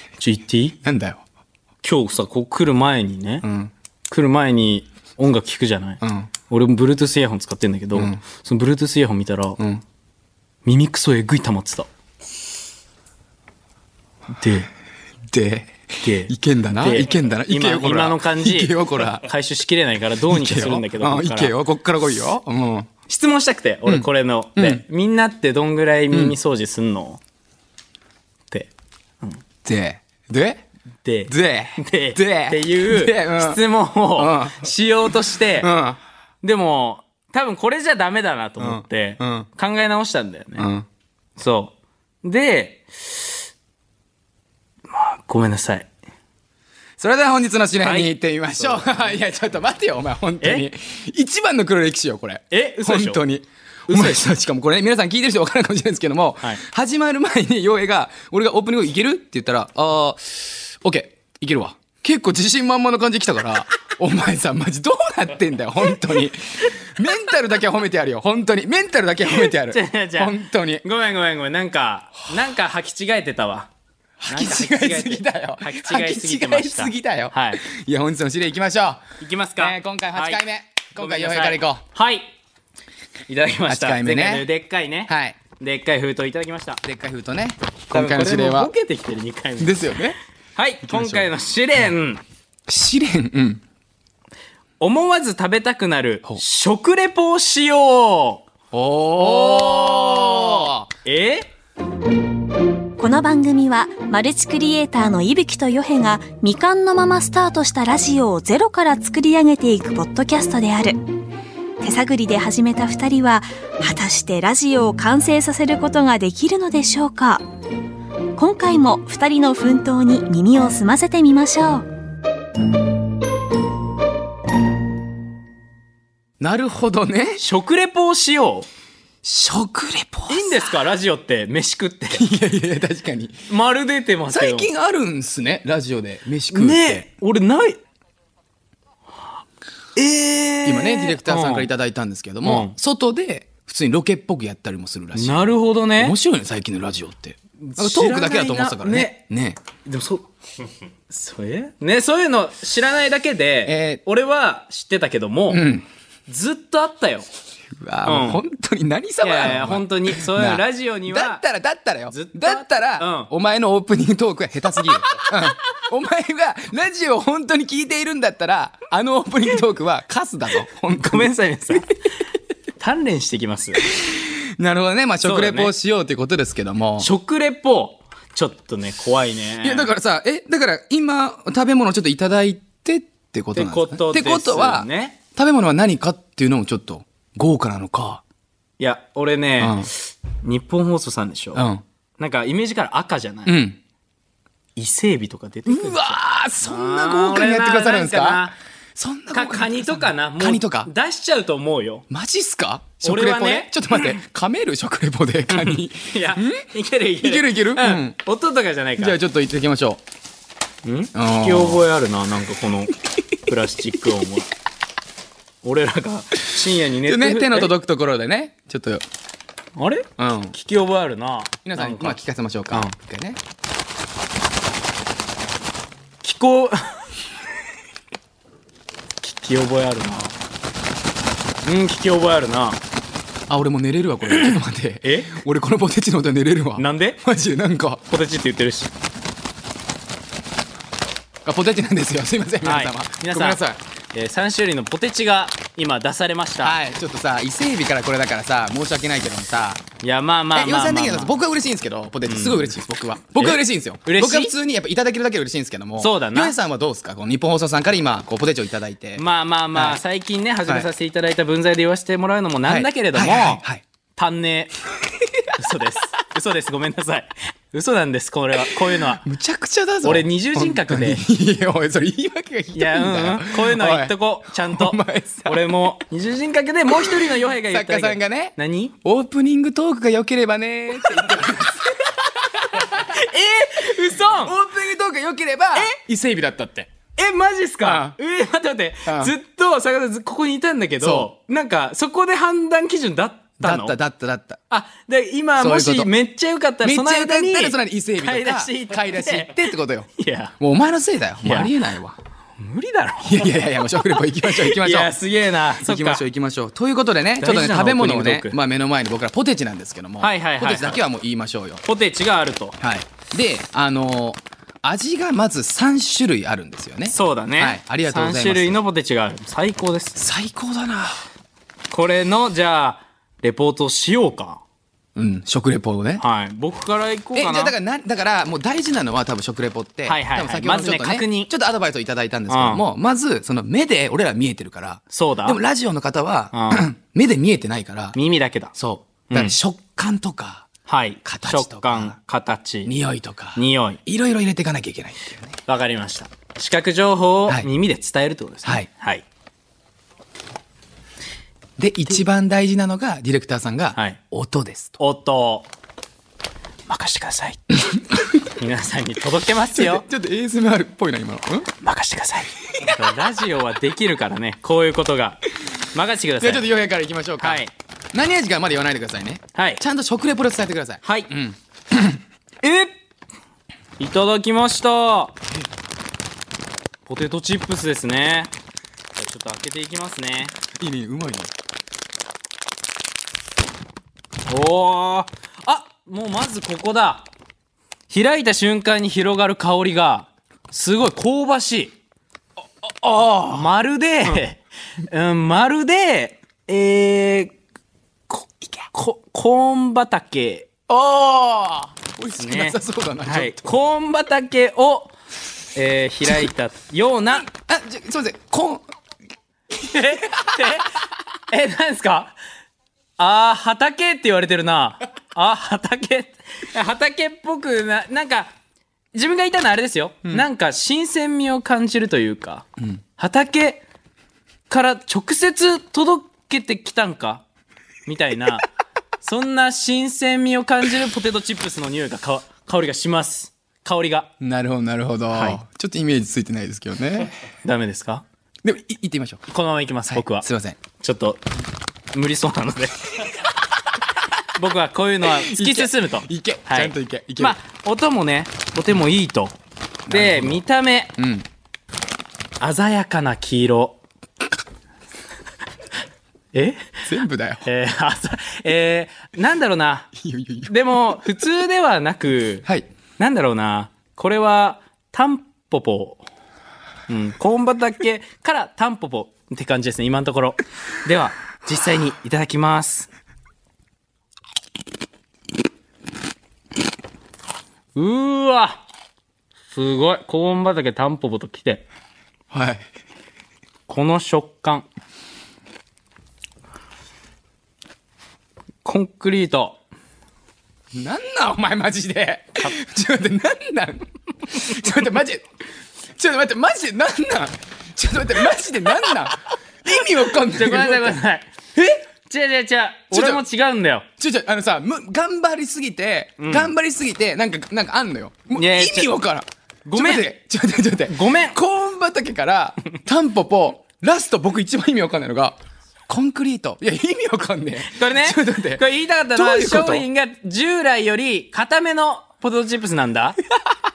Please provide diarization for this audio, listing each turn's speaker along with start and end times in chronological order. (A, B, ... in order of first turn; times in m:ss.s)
0:00.2-0:00.8 A
0:00.8-0:01.2 B
0:01.8-0:03.4 A
0:03.4-0:03.7 B
0:04.1-0:09.6 A
0:06.0-0:06.3 B
0:07.9-0:08.2 B
0:09.6-0:09.8 B
0:10.6-0:11.9 A
0:14.4-0:14.7 A
0:15.3-0:19.3 B
0:16.0-0:21.5 A
0:20.3-0:22.9 B
0:23.1-0:27.2 A
0:23.9-0:24.8 B
0:26.1-0:26.4 B
0:28.5-0:29.4 A
0:29.6-0:30.7 B
0:31.0-0:35.7 A
0:31.3-0:33.6 B
0:34.2-0:34.7 B
0:35.6-0:36.0 B
0:36.4-0:40.7 A
0:38.6-0:39.5 B
0:40.6-0:40.9 B
0:41.4-0:43.4 A
0:44.9-0:45.9 A
0:47.0-1:10.8 B
0:47.8-0:49.2 A
0:50.4-0:50.7 A
0:52.5-0:53.2 A
0:53.9-0:54.3 A
1:09.2-1:13.7 A
1:14.2-1:21.8 B
1:14.3-1:17.6 A
1:19.2-1:20.4 A
1:21.0-1:22.3 A
1:23.3-1:26.8 A
1:23.7-1:24.5 B
1:25.1-1:25.4 B
1:26.8-1:28.7 B
1:27.9-1:29.9 A
1:29.6-1:30.2 B
1:30.6-1:32.2 A
1:30.8-1:31.3 B
1:32.7-1:33.6 B
1:34.8-1:38.5 A
1:38.7-1:40.9 B
1:39.2-1:41.5 A
1:43.0-1:51.0 C
1:51.8-1:57.4 C
1:58.4-2:01.9 C
2:06.4-2:07.4 B
2:07.4-2:08.7 A
2:09.2-2:10.8 B
2:10.3-2:12.3 A
2:12.1-2:13.5 B
2:13.5-2:14.7 A
2:14.3-2:17.1 B
2:16.5-2:17.8 A
2:20.0-2:21.7 A
2:20.6-2:29.6 B
2:22.4-2:22.8 A
2:25.2-2:26.2 A
2:27.6-2:29.2 A
2:29.8-2:30.3 A
2:31.1-2:35.6 A
2:33.6-2:34.0 B
2:35.5-2:35.9 B
2:36.3-2:37.3 A
2:37.8-2:51.8 B
2:38.1-2:38.4 A
2:39.2-2:41.4 A
2:42.1-2:43.3 A
2:51.0-2:51.9 A
2:52.8-2:53.8 A
2:53.9-2:57.1 B
2:55.2-2:55.7 A
2:57.0-2:59.9 A
2:59.6-3:08.2 B
3:03.6-3:05.2 A
3:08.8-3:13.6 A
3:09.6-3:09.9 B
3:11.6-3:11.8 B
3:13.5-3:13.8 B
3:14.8-3:18.6 A
3:15.7-3:20.9 B
3:19.3-3:22.0 A
3:22.1-3:26.7 B
3:23.0-3:24.2 A
3:25.5-3:29.2 A
3:27.2-3:28.2 B
3:29.0-3:30.0 B
3:30.8-3:34.5 A
3:31.1-3:31.9 B
3:35.6-3:37.7 A
3:37.0-3:39.0 B
3:39.8-3:42.2 A
3:40.2-3:40.6 B
3:41.6-3:43.4 B
3:46.2-3:47.1 A
3:49.2-3:50.4 A
3:51.6-3:52.8 A
3:53.5-3:58.0 B
3:54.4-3:55.4 A
3:56.8-3:57.2 A
3:58.1-3:58.9 A
4:01.4-4:03.8 B
4:02.6-4:03.6 A
4:04.1-4:06.8 A
4:06.6-4:09.8 B
4:10.0-4:11.4 A
4:10.5-4:20.0 B
4:12.3-4:12.8 A
4:13.4-4:14.5 A
4:16.0-4:16.6 A
4:19.2-4:23.6 A
4:22.6-4:23.8 B
4:24.2-4:24.7 A
4:25.2-4:25.6 B
4:25.6-4:29.2 A
4:29.2-4:35.7 B
4:30.0-4:31.2 A
4:32.7-4:39.0 A
4:36.9-4:43.2 B
4:41.0-4:41.9 A
4:42.7-4:44.6 A
4:44.1-4:46.9 B
4:47.2-4:54.0 A
4:47.8-4:48.2 B
4:49.1-4:49.3 B
4:51.0-4:51.3 B
4:53.6-4:54.6 B
4:54.7-5:00.5 A
4:55.6-4:56.1 B
4:56.8-5:02.2 B
5:01.4-5:01.8 A
5:02.6-5:06.2 A
5:03.2-5:05.1 B
5:05.8-5:11.8 B
5:07.4-5:08.6 A
5:10.2-5:11.0 A
5:11.8-5:12.8 A
5:12.8-5:18.8 B
5:17.1-5:20.2 A
5:20.2-5:21.3 B
5:21.9-5:24.6 A
5:25.2-5:26.2 B
5:26.2-5:27.8 A
5:27.3-5:38.2 B
5:30.1-5:31.5 A
5:32.5-5:32.8 A
5:35.1-5:35.6 A
5:36.5-5:36.9 A
5:38.1-5:38.7 A
5:38.7-5:40.7 B
5:39.3-5:39.6 A
5:40.9-5:42.9 A
5:41.2-5:42.2 B
5:42.8-5:45.6 B
5:43.6-5:44.0 A
5:45.7-5:49.2 A
5:51.8-5:55.0 B
5:55.0-5:55.7 A
5:56.9-5:57.6 A
5:57.9-5:58.5 B
5:58.5-6:00.0 A
5:59.7-6:01.7 B
6:01.8-6:05.4 A
6:02.7-6:03.0 B
6:05.9-6:06.6 A
6:06.4-6:12.2 B
6:07.4-6:07.7 A
6:09.6-6:09.8 A
6:11.0-6:11.3 A
6:12.6-6:13.0 A
6:14.0-6:15.4 A
6:17.1-6:18.5 A
6:19.2-6:20.5 A
6:20.8-6:21.5 B
6:24.5-6:27.3 A
6:28.1-6:32.0 A
6:32.8-6:33.7 B
6:33.5-6:37.6 A
6:38.3-6:40.7 A
6:40.9-6:43.8 B
6:42.4-6:45.1 A
6:45.8-6:47.5 A
6:47.4-6:48.9 B
6:49.8-6:52.4 A
6:49.9-6:50.7 B
6:53.2-6:58.5 A
6:59.1-7:02.7 A
7:03.2-7:03.8 A
7:04.7-7:07.4 A
7:08.1-7:08.7 A
7:09.2-7:14.3 A
7:14.4-7:17.4 B
7:15.3-7:15.6 A
7:17.6-7:18.2 A
7:18.6-7:19.5 B
7:19.5-7:21.5 A
7:20.1-7:20.8 B
7:22.1-7:23.3 A
7:23.2-7:23.5 B
7:24.6-7:29.6 A
7:25.2-7:27.6 B
7:30.1-7:30.6 B
7:30.1-7:31.2 A
7:31.2-7:31.5 B
7:32.6-7:34.0 A
7:36.5-7:37.0 A
7:37.1-7:37.7 B
7:37.6-7:40.1 A
7:40.2-7:41.2 B
7:40.7-7:42.7 A
7:43.2-7:46.3 A
7:47.1-7:53.1 A
7:58.0-7:58.8 A
7:59.7-8:01.9 A
8:02.5-8:02.9 B
8:03.9-8:04.9 A
8:08.8-8:09.8 A
8:10.9-8:15.5 B
8:16.2-8:21.2 B
8:20.3-8:24.1 A
8:23.1-8:23.4 B
8:24.2-8:40.1 B
8:26.4-8:26.7 A
8:28.6-8:29.1 A
8:29.9-8:30.3 A
8:31.1-8:31.6 A
8:37.9-8:43.4 A